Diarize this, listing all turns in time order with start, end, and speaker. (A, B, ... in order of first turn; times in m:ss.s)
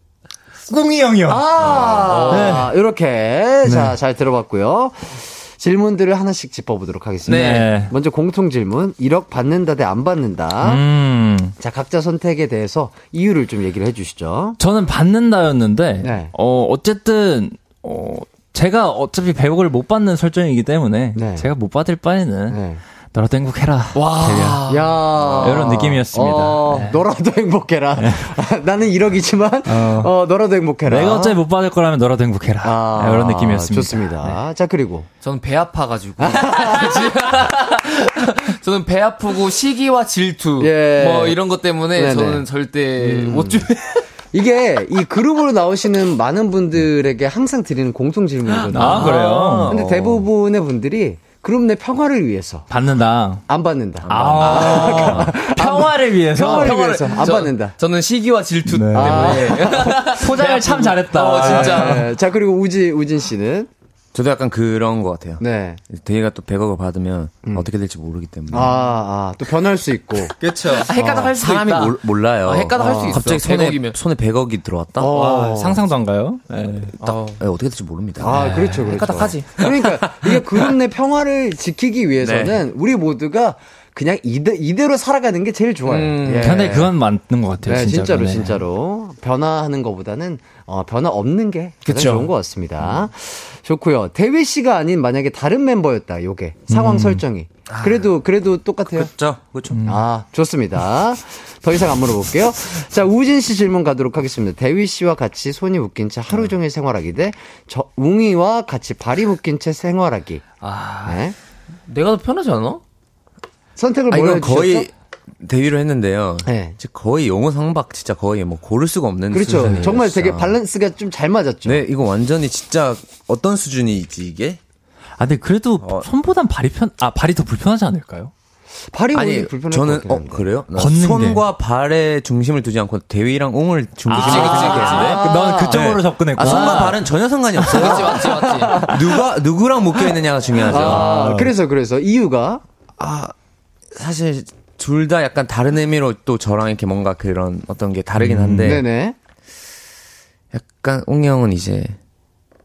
0:00.7-0:01.4 A
0:01.3-0:10.9 B
0:01.6-0:02.2 C
0:02.0-0:02.6 D
0:02.3-0:02.7 A
0:03.7-0:03.9 A
0:07.3-0:07.9 A
0:07.3-0:07.7 D
0:10.6-0:11.5 A
0:11.6-0:14.6 B
0:14.6-0:22.6 A
0:16.0-0:16.3 B
0:21.2-0:21.5 B
0:22.5-0:22.8 B
0:23.1-0:24.7 A
0:24.0-0:25.0 D
0:24.6-0:31.4 B
0:25.1-0:25.8 C
0:25.4-0:27.0 A
0:28.0-0:28.3 A
0:29.7-0:30.1 A
0:30.9-0:34.4 A
0:32.6-0:35.1 B
0:35.2-0:43.9 D
0:36.2-0:37.2 B
0:40.6-0:41.4 B
0:41.9-0:42.5 B
0:43.0-0:43.7 B
0:44.3-0:52.7 B
0:48.6-0:49.8 D
0:48.7-0:49.8 A
0:49.1-0:50.2 C
0:52.7-0:53.4 A
0:53.5-0:57.8 B
0:54.0-0:55.4 C
0:54.1-0:57.2 A
0:54.4-0:54.9 D
0:56.3-1:02.1 D
0:58.6-1:02.1 A
0:58.9-0:59.9 B
1:01.4-1:03.7 B
1:04.1-1:08.8 C
1:05.4-1:05.8 B
1:08.5-1:10.3 B
1:10.4-1:10.9 A
1:10.6-1:14.0 D
1:11.0-1:11.3 B
1:11.3-1:15.1 C
1:12.8-1:13.2 B
1:15.0-1:15.8 B
1:15.1-1:17.0 A
1:17.0-1:17.4 D
1:17.1-1:18.4 C
1:18.2-1:26.9 B
1:18.3-1:19.7 D
1:19.6-1:20.4 C
1:22.2-1:22.6 C
1:25.8-1:26.6 D
1:26.4-1:28.6 A
1:27.6-1:39.1 B
1:31.8-1:32.3 D
1:36.7-1:37.2 A
1:37.7-1:38.0 C
1:38.9-1:39.8 C
1:39.7-1:40.0 A
1:39.9-1:50.5 B
1:50.6-1:51.3 D
1:51.0-1:51.4 B
1:51.9-1:52.8 D
1:53.8-1:54.9 B
1:54.1-2:00.6 C
1:56.4-1:56.8 B
1:59.3-2:01.8 B
2:01.6-2:04.6 C
2:05.2-2:08.3 A
2:05.8-2:06.1 C
2:08.9-2:10.5 B
2:09.1-2:21.1 C
2:10.7-2:11.4 A
2:14.1-2:17.9 A
2:14.2-2:15.2 D
2:14.2-2:15.8 B
2:16.4-2:16.8 B
2:17.7-2:19.0 D
2:17.8-2:19.3 B
2:20.7-2:22.6 B
2:20.7-2:21.5 A
2:23.0-2:23.3 C
2:23.9-2:28.8 C
2:28.2-2:28.8 A
2:28.6-2:29.2 B
2:30.5-2:32.0 C